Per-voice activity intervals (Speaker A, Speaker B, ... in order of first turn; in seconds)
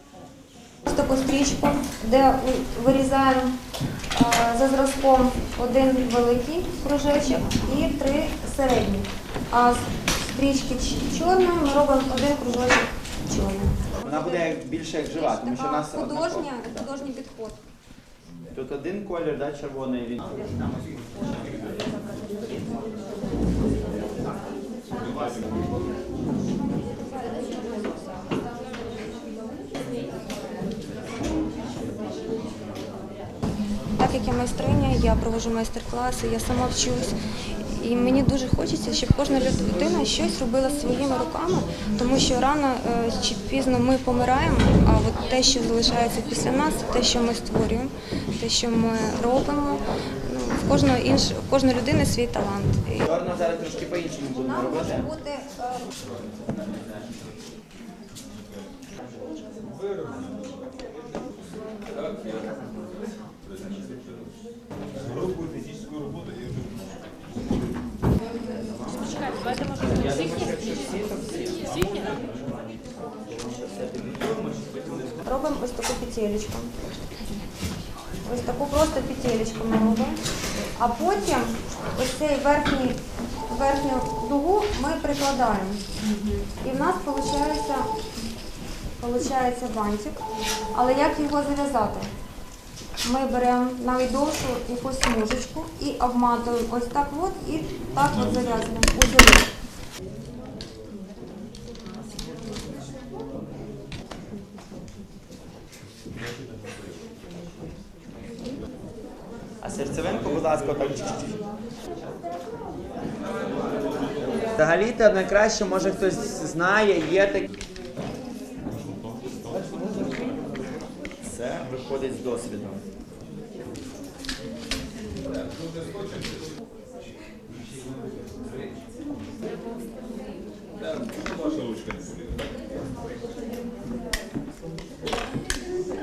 Speaker A: 0.8-3.5, 4.1-17.6, 27.0-28.3, 34.0-53.5, 54.0-55.9, 75.2-76.9, 78.2-80.2, 80.8-85.8, 86.6-87.9, 89.0-90.2, 90.7-92.1, 93.0-99.5
Speaker B: 14.0-16.9, 18.5-20.8, 53.0-55.1, 69.6-72.3, 73.3-75.2, 109.6-111.4, 114.5-117.5, 119.5-120.4, 121.2-122.8
Speaker C: 65.1-66.7, 125.8-126.2, 130.8-132.3